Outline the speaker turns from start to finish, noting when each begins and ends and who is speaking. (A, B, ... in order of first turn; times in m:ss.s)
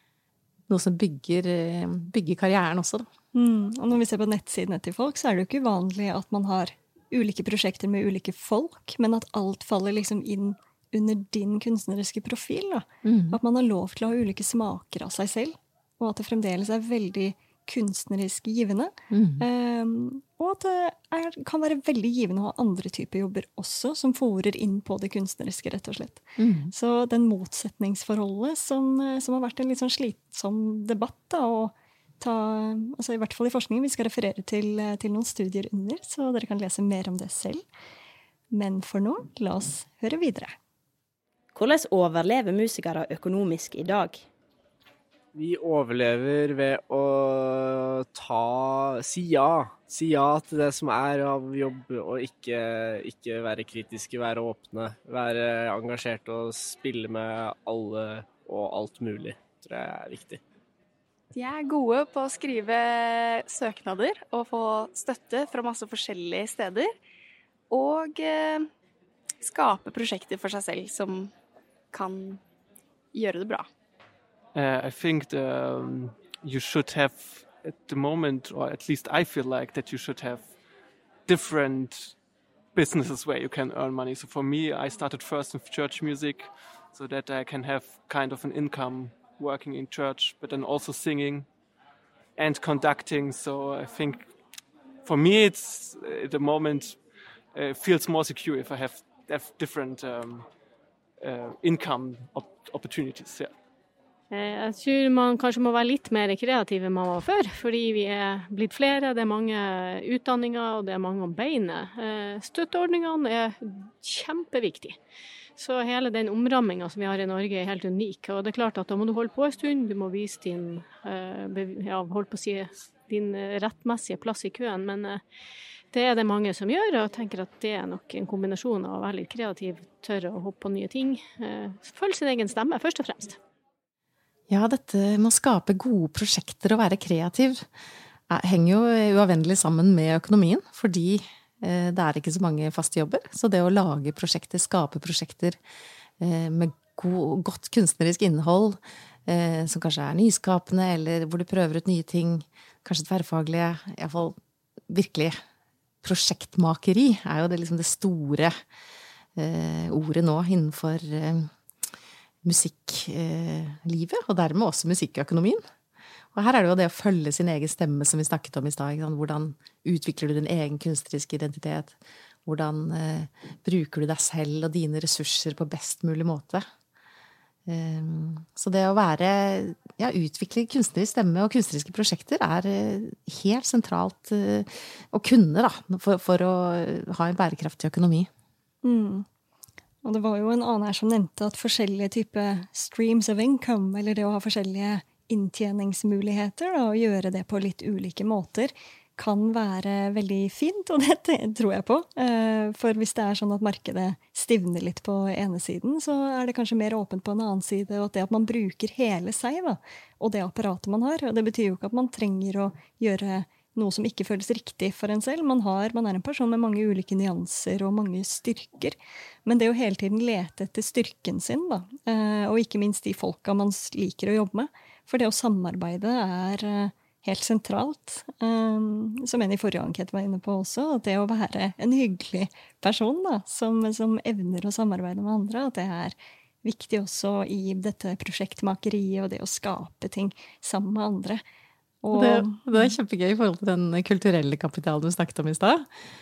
0:00.7-0:03.1 A
0:03.3-0:37.6 B
0:13.0-0:13.4 A
0:19.1-0:19.4 A
0:26.4-0:26.7 A
0:38.5-0:40.5 B
0:41.5-0:44.2 C
0:45.3-1:00.4 D
1:01.3-1:06.9 E
1:07.7-1:08.7 E
1:09.4-1:11.3 E
1:11.9-1:12.4 E
1:13.1-1:13.7 E
1:14.5-1:20.6 F
1:21.2-1:22.2 F
1:22.7-1:31.5 F
1:32.4-1:34.3 F
1:35.0-1:40.5 F
1:41.2-1:43.5 F
1:44.3-1:55.0 G
1:55.6-2:05.2 G
2:05.9-2:13.4 G
2:14.5-2:17.6 A
2:18.3-2:25.6 A
2:26.2-2:34.4 A
2:34.9-2:35.4 A
2:36.0-2:38.5 A
2:39.4-2:41.5 A
2:42.4-2:45.6 A
2:46.3-2:56.7 A
2:57.7-3:08.3 A
3:08.8-3:09.2 B
3:10.0-4:01.4 B
4:02.0-4:02.9 B
4:02.1-4:05.8 A